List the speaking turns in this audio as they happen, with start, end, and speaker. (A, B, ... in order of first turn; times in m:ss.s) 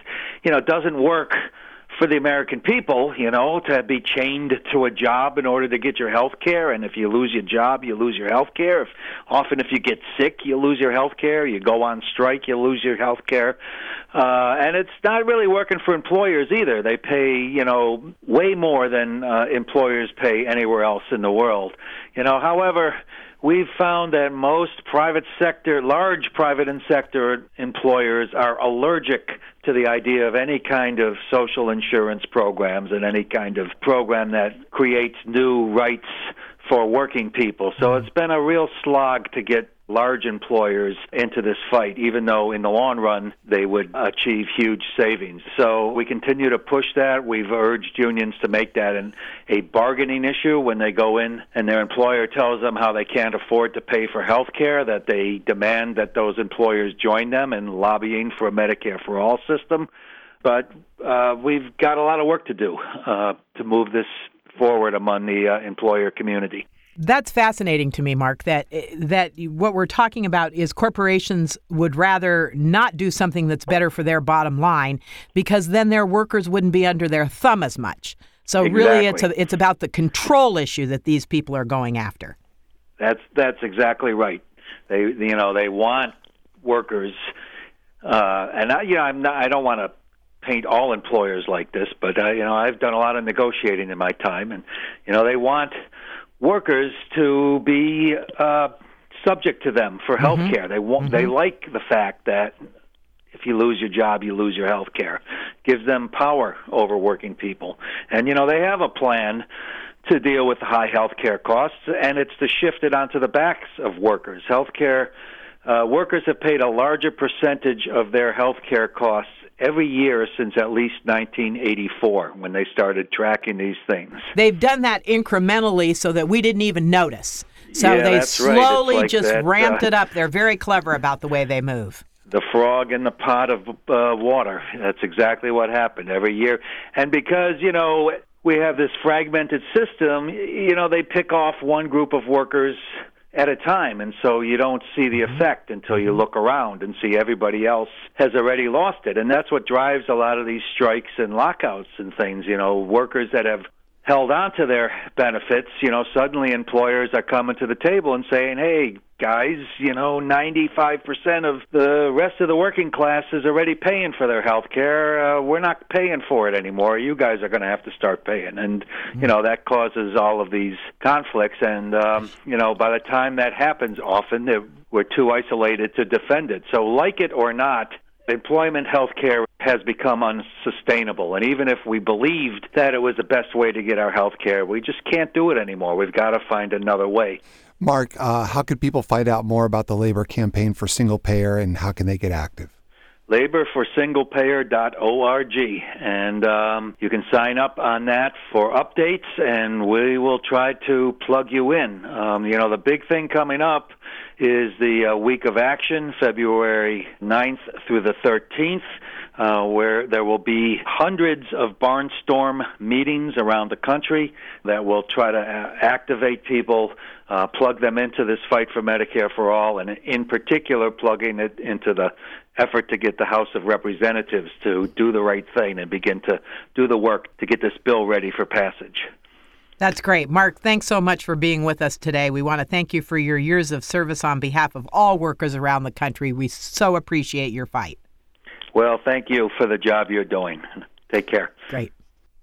0:00.4-0:13.6 A
0:14.1-0:59.9 A
1:00.4-1:06.6 A
1:07.0-1:22.3 B
1:18.6-1:19.3 A
1:23.0-1:27.2 A
1:28.0-1:35.7 A
1:36.4-1:38.7 A
1:39.2-1:42.6 A
1:40.2-1:41.3 B
1:43.3-1:49.4 A
1:50.0-1:55.1 A
1:55.6-2:04.2 A
2:04.3-2:12.0 B
2:07.7-2:09.9 A
2:12.3-3:07.4 A
3:07.8-3:12.7 C
3:13.3-3:28.8 A
3:29.4-3:49.1 A
3:49.8-3:58.0 B
3:58.7-4:01.5 A